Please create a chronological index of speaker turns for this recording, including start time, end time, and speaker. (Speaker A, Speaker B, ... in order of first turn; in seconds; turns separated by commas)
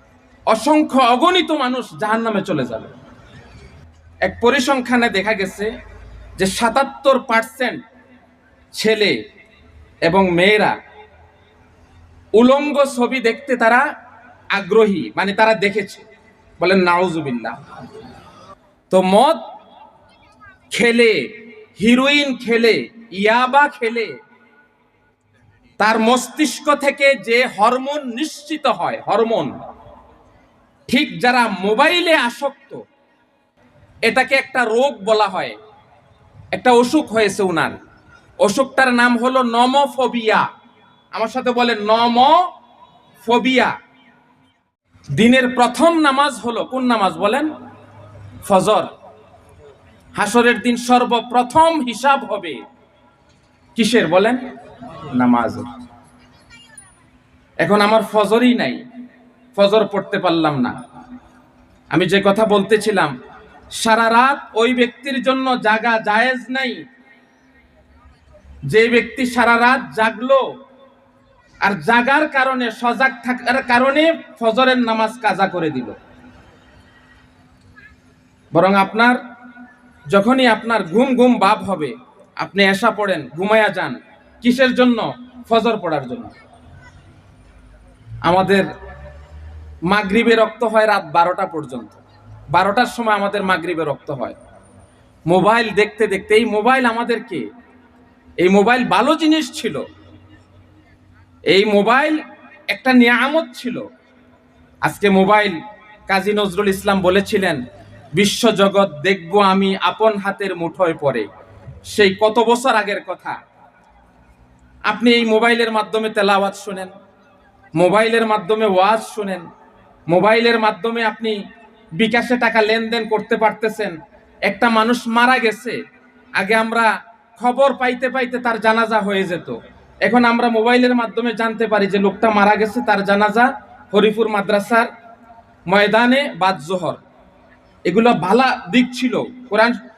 Speaker A: 0.5-2.9, Speaker A: 4.2-5.7, Speaker A: 6.4-7.8, Speaker A: 8.7-9.2, Speaker A: 10.1-10.8, Speaker A: 12.4-13.9, Speaker A: 14.5-16.1, Speaker A: 16.6-17.6, Speaker A: 18.9-19.4, Speaker A: 20.7-24.2, Speaker A: 25.8-29.5, Speaker A: 30.9-32.8, Speaker A: 34.0-35.6, Speaker A: 36.5-37.8, Speaker A: 38.4-40.5, Speaker A: 41.1-42.5, Speaker A: 43.2-43.8, Speaker A: 45.1-47.5, Speaker A: 48.5-48.9, Speaker A: 50.1-52.6, Speaker A: 53.8-54.5, Speaker A: 55.1-55.7, Speaker A: 57.6-58.8, Speaker A: 59.6-60.8, Speaker A: 61.9-63.1, Speaker A: 63.8-66.8, Speaker A: 68.7-70.5, Speaker A: 71.6-76.0, Speaker A: 78.5-79.2, Speaker A: 80.1-86.3, Speaker A: 88.2-88.7, Speaker A: 89.9-92.0, Speaker A: 92.5-94.4, Speaker A: 95.3-97.5, Speaker A: 98.4-99.8, Speaker A: 101.5-103.8, Speaker A: 104.8-107.6, Speaker A: 108.2-111.3, Speaker A: 111.9-113.4, Speaker A: 114.9-117.0, Speaker A: 117.8-119.5, Speaker A: 120.1-121.4, Speaker A: 122.0-125.8, Speaker A: 126.4-134.9, Speaker A: 135.7-137.0, Speaker A: 137.9-139.8